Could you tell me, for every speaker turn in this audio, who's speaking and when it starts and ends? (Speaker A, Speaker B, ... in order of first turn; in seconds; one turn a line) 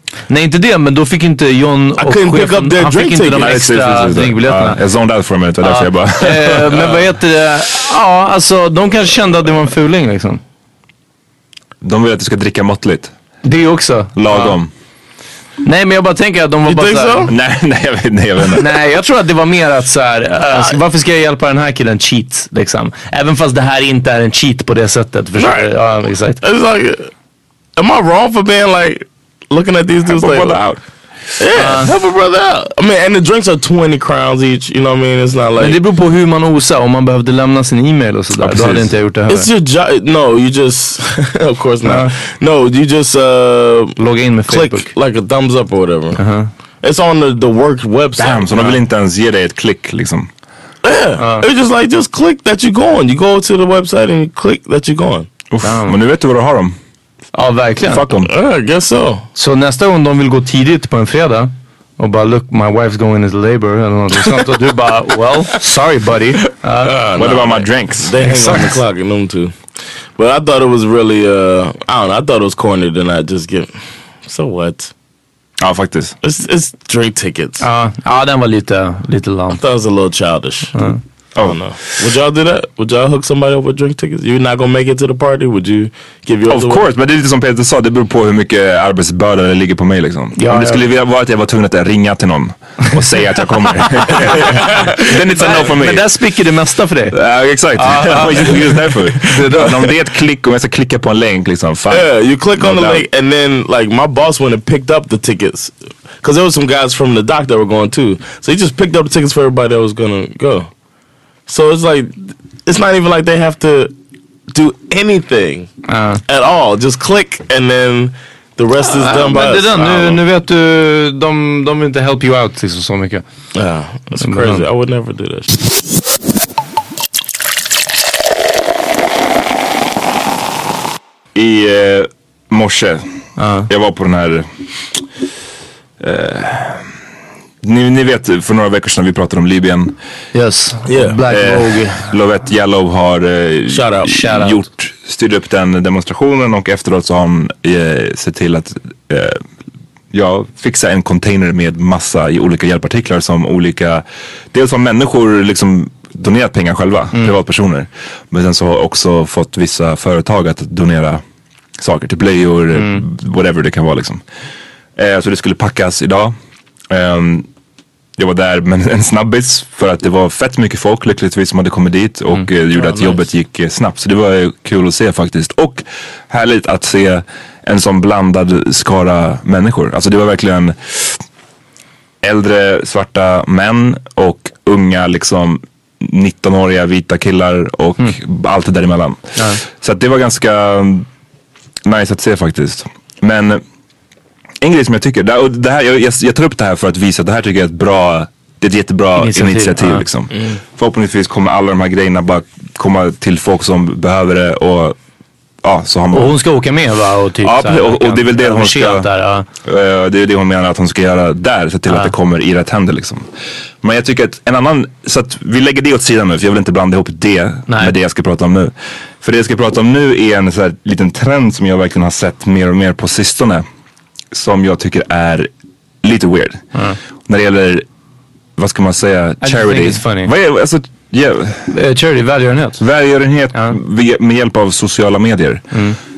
Speaker A: 0.3-4.8
Speaker B: 2.0-3.5
Speaker C: 3.4-6.9
Speaker A: 5.6-10.4
Speaker C: 11.8-13.1
Speaker A: 13.4-14.6
Speaker C: 14.2-14.7
Speaker A: 15.6-17.3
Speaker B: 16.7-17.3
Speaker C: 17.3-18.7
Speaker A: 18.6-26.4
Speaker B: 25.4-25.7
Speaker B: 26.4-27.1
Speaker B: 27.8-30.7
Speaker C: 30.1-30.8
Speaker B: 31.4-35.8
Speaker A: 31.6-31.9
Speaker A: 35.6-39.5
Speaker C: 38.4-38.9
Speaker B: 39.3-46.2
Speaker A: 41.8-42.1
Speaker A: 44.0-44.9
Speaker A: 46.2-46.5
Speaker B: 46.8-48.7
Speaker C: 48.2-50.3
Speaker B: 50.8-55.3
Speaker A: 51.2-51.4
Speaker C: 55.5-56.8
Speaker A: 55.6-55.9
Speaker A: 57.4-58.1
Speaker C: 57.8-58.3
Speaker B: 58.3-59.3
Speaker A: 59.4-67.4
Speaker B: 66.8-74.9
Speaker C: 67.1-68.1
Speaker A: 68.2-68.8
Speaker C: 75.6-76.2
Speaker B: 76.2-77.6
Speaker A: 77.6-79.6
Speaker B: 79.5-80.8
Speaker B: 81.4-86.8
Speaker C: 86.5-96.1
Speaker A: 90.4-90.8
Speaker A: 94.1-97.2
Speaker C: 97.1-103.1
Speaker A: 97.8-99.8
Speaker B: 101.9-110.7
Speaker B: 111.5-113.9
Speaker B: 114.5-115.7
Speaker A: 115.9-116.2
Speaker B: 116.3-120.2
Speaker A: 118.8-123.2
Speaker B: 123.5-125.6
Speaker A: 124.2-124.6
Speaker C: 131.3-133.0
Speaker A: 133.4-133.7
Speaker C: 133.7-134.5
Speaker C: 136.0-136.9
Speaker C: 137.6-139.9
Speaker A: 140.3-142.0
Speaker B: 140.9-141.2
Speaker C: 141.3-149.4
Speaker B: 143.7-144.3
Speaker A: 144.1-144.6
Speaker C: 150.1-161.2
Speaker C: 161.8-164.2
Speaker A: 162.7-163.0
Speaker C: 164.9-166.3
Speaker C: 166.9-167.5
Speaker C: 168.2-181.2
Speaker B: 172.8-173.2
Speaker C: 182.2-191.1
Speaker C: 191.9-193.6
Speaker C: 194.6-205.0
Speaker A: 199.2-200.1
Speaker C: 205.6-206.4
Speaker A: 206.1-209.4
Speaker C: 207.4-209.1
Speaker C: 209.6-213.3
Speaker C: 213.8-223.7
Speaker A: 217.7-217.9
Speaker C: 224.3-225.5
Speaker C: 226.0-226.7
Speaker C: 227.2-227.9
Speaker C: 228.6-231.7
Speaker A: 229.4-230.3
Speaker A: 231.7-232.8
Speaker C: 232.8-235.7